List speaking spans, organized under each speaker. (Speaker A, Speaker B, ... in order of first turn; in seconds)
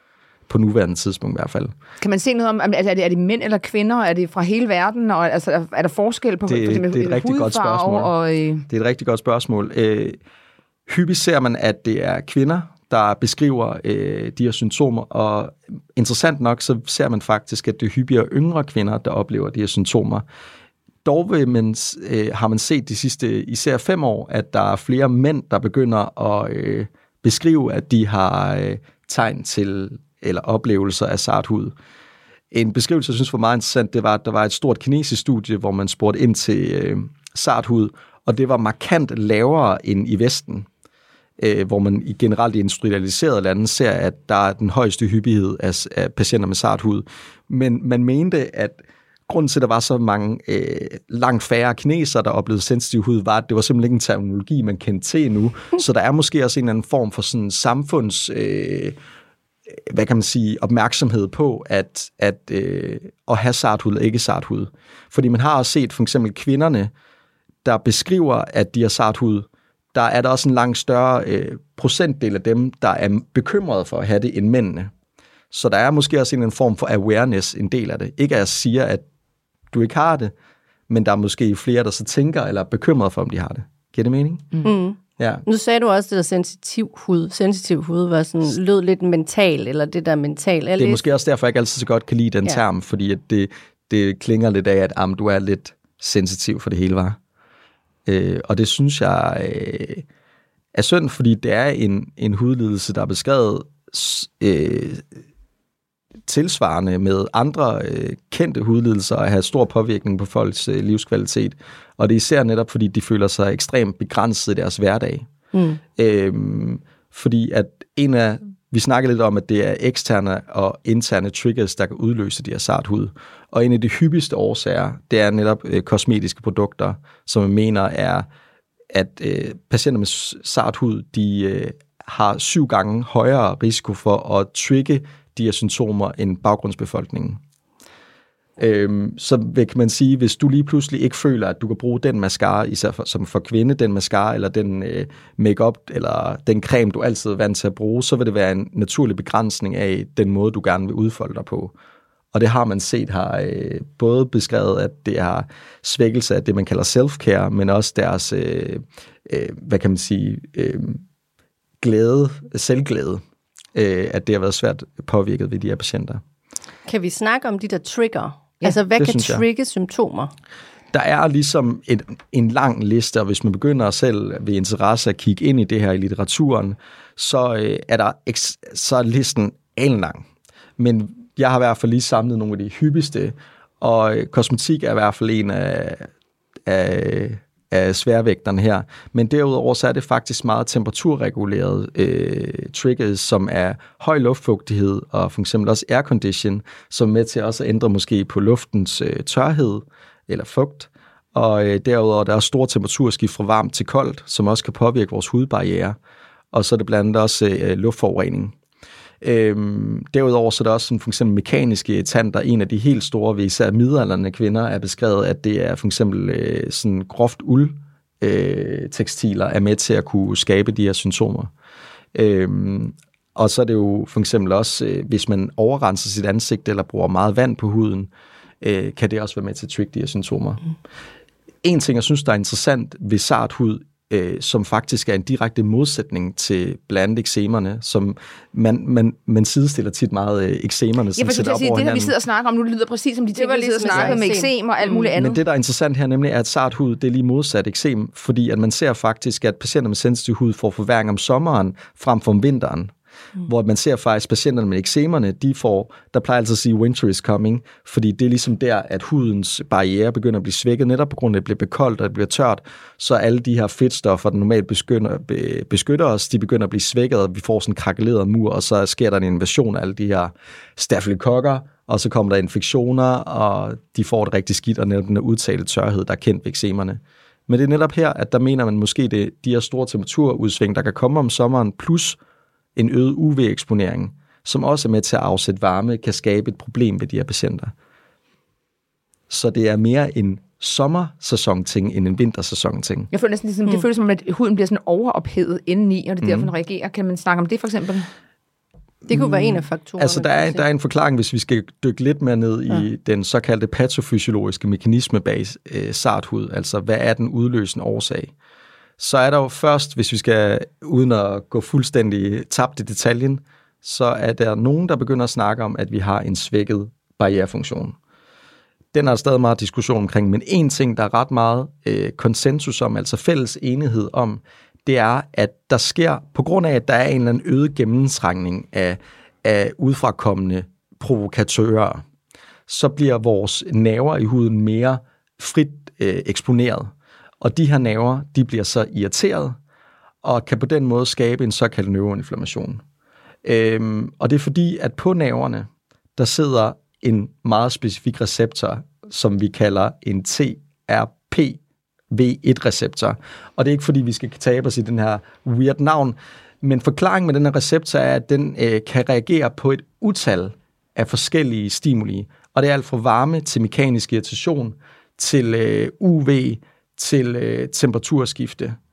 Speaker A: 0.5-1.7, 6.5-8.1, 8.7-10.2, 10.9-20.2, 21.0-31.7, 32.5-40.7, 41.4-59.0, 59.8-66.9, 67.6-74.9, 75.5-79.0, 79.7-80.3, 80.9-84.6, 85.2-85.4, 90.8-97.2, 98.0-100.0, 100.7-105.1, 106.2-115.3, 116.0-128.2, 128.9-137.4, 138.6-151.7, 152.3-161.0, 161.8-163.2, 163.7-166.2, 168.9-169.4, 170.9-180.2, 180.8-186.1, 186.7-205.9, 206.5-208.5, 209.2-221.5, 222.1-228.1, 228.6-230.6, 231.6-242.1, 245.1-282.2, 282.8-287.7, 289.3-293.1, 296.2-296.5, 299.1-308.3, 309.0-317.9, 318.9-332.0, 332.7-339.6, 340.2-342.8, 343.4-351.6, 352.1-368.8
Speaker B: 2.0-8.7, 241.2-245.4, 293.1-298.1
Speaker C: 84.6-91.0, 115.5-115.8, 166.8-170.3, 243.3-245.1, 299.1-300.6